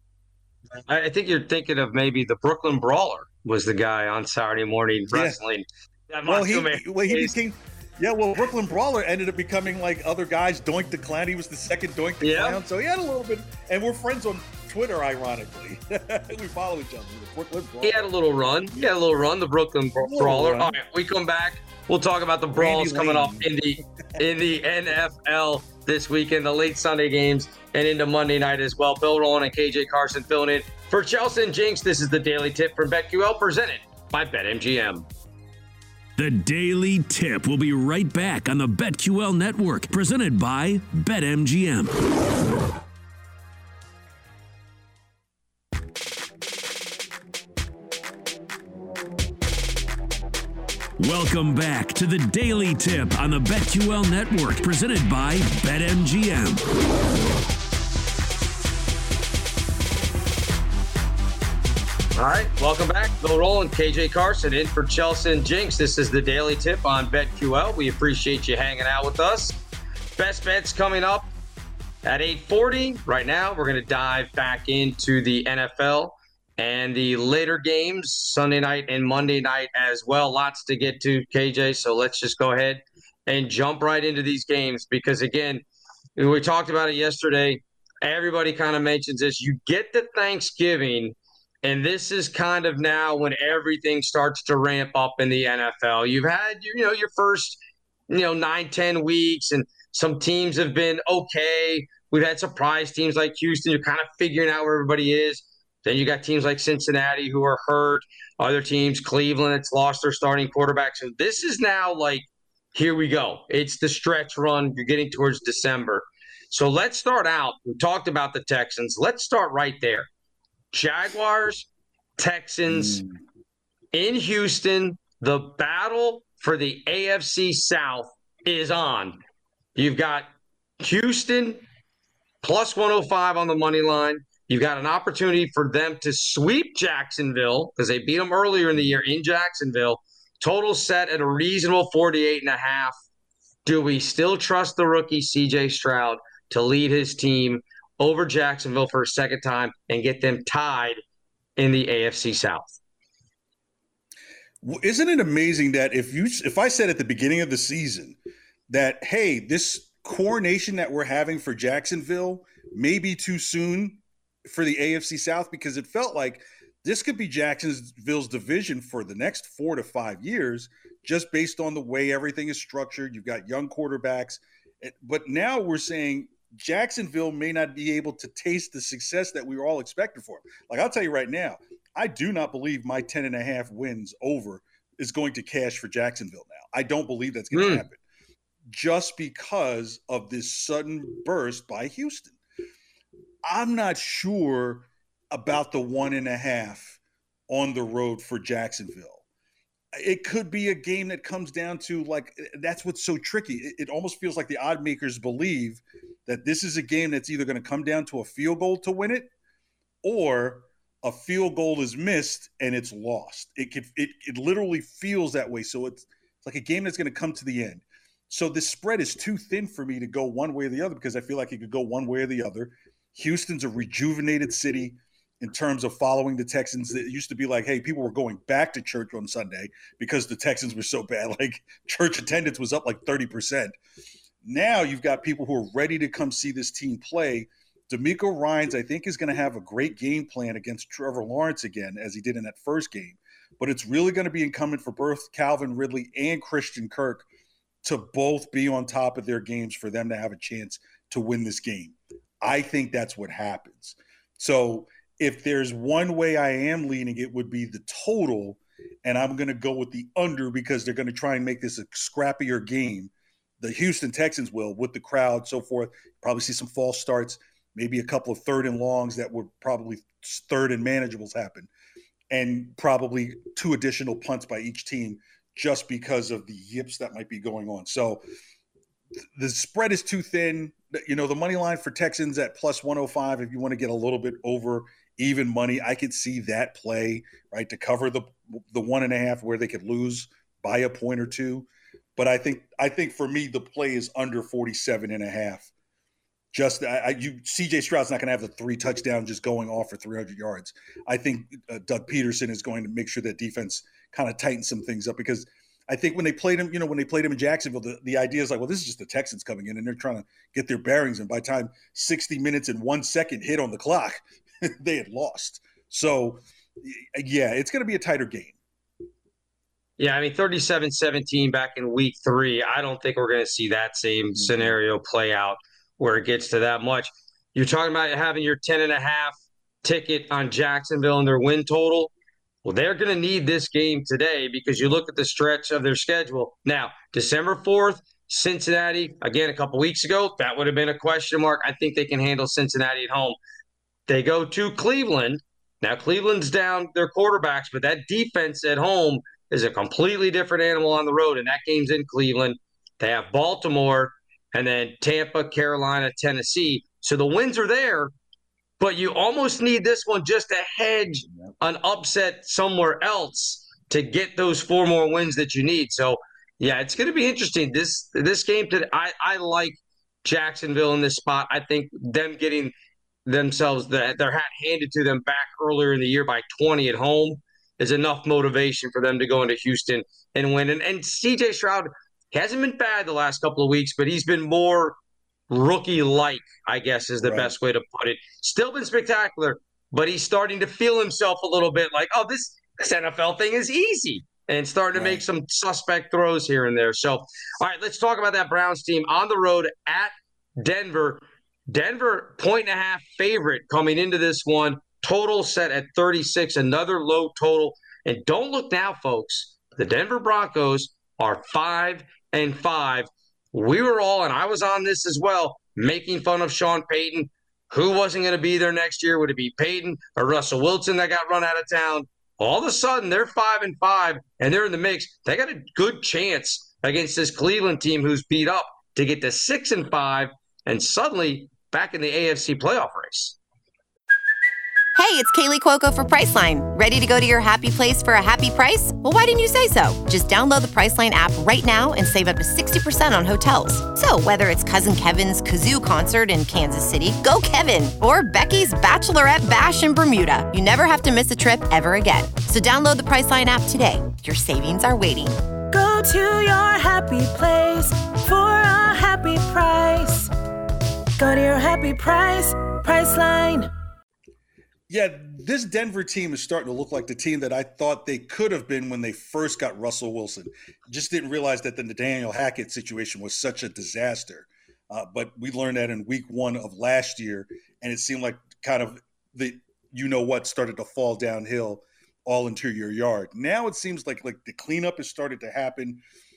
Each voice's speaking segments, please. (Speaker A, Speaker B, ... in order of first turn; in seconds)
Speaker A: 0.9-7.4, 12.2-12.6, 17.8-35.0, 62.2-69.6, 70.2-71.3, 72.0-85.6, 86.2-97.6, 98.1-120.1, 120.7-121.7, 122.2-123.0, 123.9-129.2, 129.8-130.3, 130.8-131.6, 132.4-142.9, 143.7-151.0, 151.6-152.8, 187.5-187.8, 320.0-332.1, 332.6-343.4, 344.1-358.1, 358.8-372.7, 373.3-385.0, 385.5-433.4
Speaker B: 5.1-5.4, 6.3-18.1, 20.0-20.8, 22.5-23.5, 122.7-123.2, 154.6-158.2, 158.7-188.0, 188.7-192.4, 193.4-199.2, 199.9-209.3, 210.0-233.8, 234.4-247.3, 247.8-271.7, 272.3-278.2, 279.4-295.7, 296.5-318.6, 324.4-324.8, 387.2-387.6, 394.9-395.2, 464.9-486.0
Speaker C: 36.2-42.0, 51.0-56.6
Speaker D: 435.0-455.4
Speaker E: 455.7-460.3, 461.2-463.7